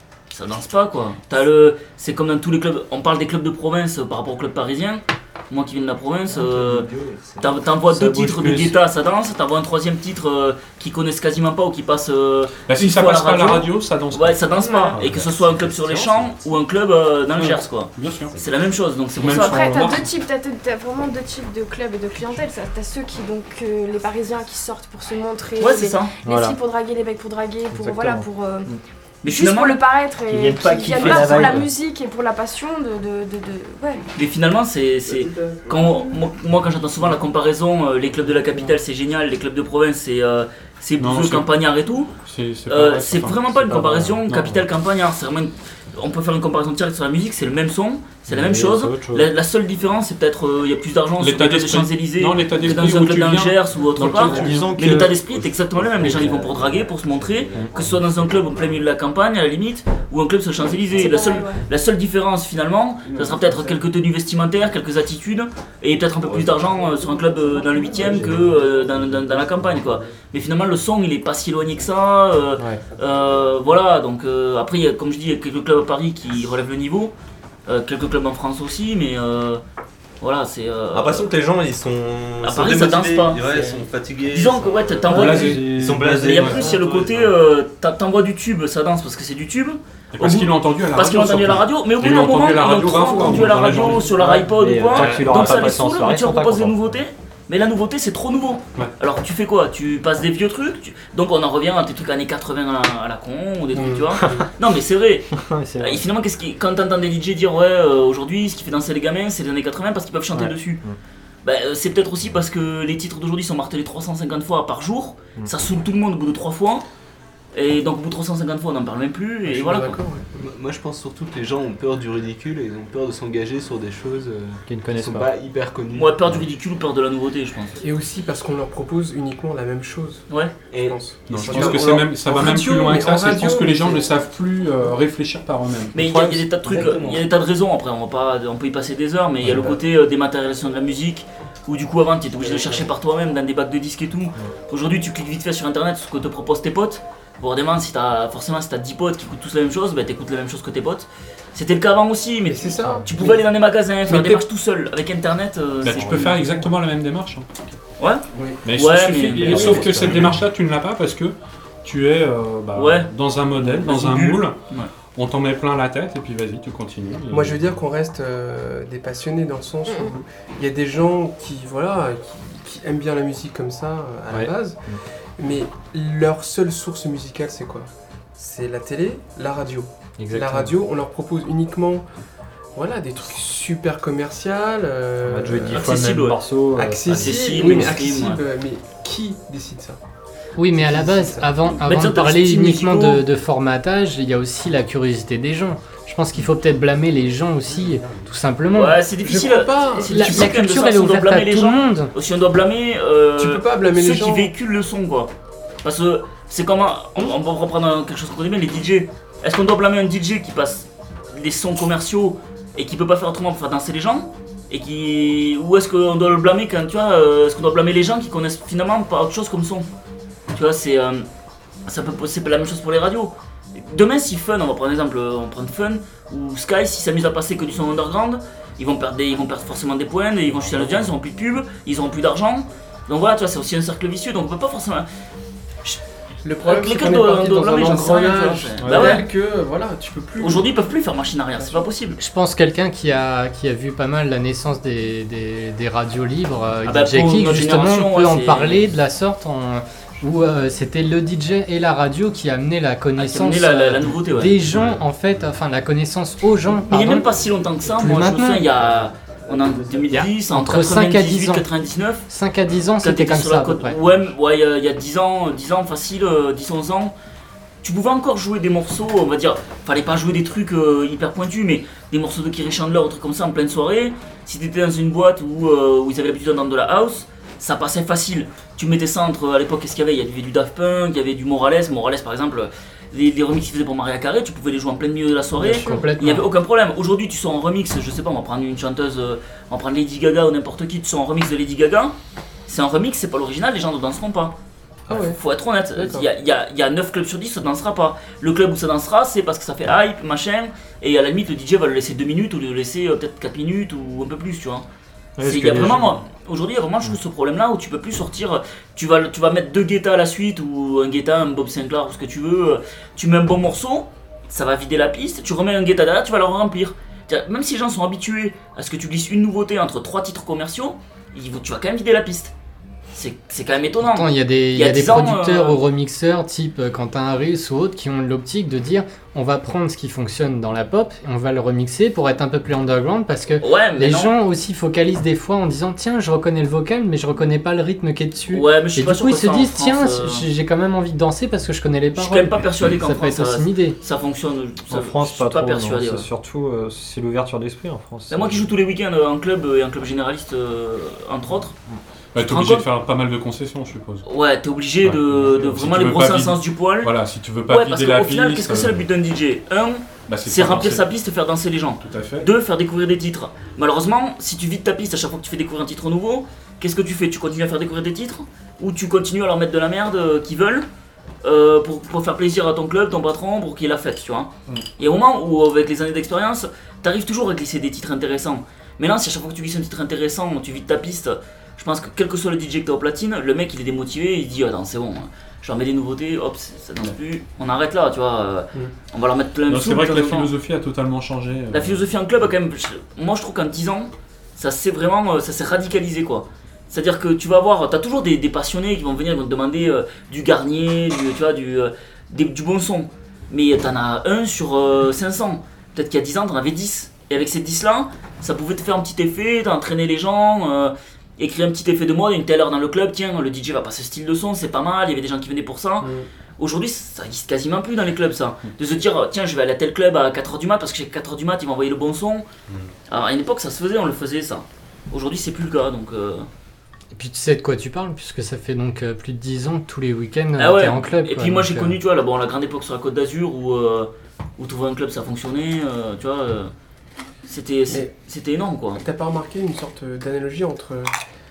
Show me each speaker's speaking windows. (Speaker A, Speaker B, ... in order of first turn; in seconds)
Speaker A: 0.3-6.9, 7.4-19.7, 25.6-26.1, 29.2-29.8, 30.9-31.6, 34.1-42.1, 42.7-77.1, 77.7-79.6, 80.2-81.3, 82.4-105.3, 105.8-110.8, 111.4-116.8, 117.5-120.0, 125.9-127.8, 135.9-156.4, 158.0-160.3, 162.7-164.9, 185.7-186.4, 187.1-188.4, 191.8-193.2, 198.7-205.3, 205.8-219.9, 220.5-221.2, 221.9-235.1, 236.6-239.3, 240.4-242.2, 246.8-248.9, 253.2-254.6, 256.9-262.2, 263.0-267.1, 267.8-292.1, 292.7-294.5, 295.1-304.8, 305.4-322.5, 323.1-325.8, 333.6-334.3, 338.5-340.5, 342.1-346.3, 348.3-351.7, 352.4-352.9, 354.2-357.1, 357.7-370.8, 371.4-390.5, 391.7-422.4, 423.1-426.5, 430.6-436.7, 437.4-439.0
Speaker B: 6.3-7.7, 30.3-31.6, 35.1-35.8, 55.9-58.7, 63.1-63.8, 66.3-66.7, 67.7-69.9, 120.3-126.5, 130.7-131.9, 136.6-137.2, 142.4-142.9
Speaker C: 7.9-8.8, 26.2-26.6, 27.7-28.8, 30.3-31.7, 43.7-44.2, 48.3-49.3, 54.2-55.1, 85.1-86.7, 93.1-97.0, 105.3-106.0, 110.3-111.0, 124.6-125.3, 136.0-136.4, 155.9-156.2, 159.5-160.3, 174.3-175.0, 180.2-180.7, 185.2-187.9, 305.4-306.2, 344.9-348.7
Speaker D: 12.7-15.3, 17.4-18.3, 19.1-20.1, 41.0-41.5, 42.2-44.6, 51.2-55.2, 85.1-86.5, 90.1-94.3, 94.9-95.8, 131.3-136.0, 155.8-157.7, 158.6-164.6, 165.1-167.6, 352.3-354.2, 355.0-359.0, 360.3-361.1, 362.0-362.5, 389.7-392.1
Speaker E: 14.5-15.0, 19.3-28.7, 29.2-34.0, 60.9-61.6
Speaker F: 15.0-16.3, 54.5-55.2, 56.0-56.6, 80.9-87.3, 95.0-95.4
Speaker G: 103.7-104.5, 119.5-120.3, 127.8-134.1, 152.4-153.5, 154.1-154.4, 156.2-156.7, 158.3-158.6, 167.3-174.8, 175.4-182.0, 182.7-186.0, 186.7-190.0, 190.7-191.6, 199.2-200.3, 203.4-204.5, 236.4-240.7, 241.6-241.8, 295.1-295.4, 295.9-296.3, 416.0-416.2, 438.9-441.1
Speaker H: 190.6-199.0, 200.1-202.1, 242.2-257.2, 258.0-258.7, 260.1-261.7, 262.3-264.0, 285.6-286.5, 324.0-343.9, 427.1-431.9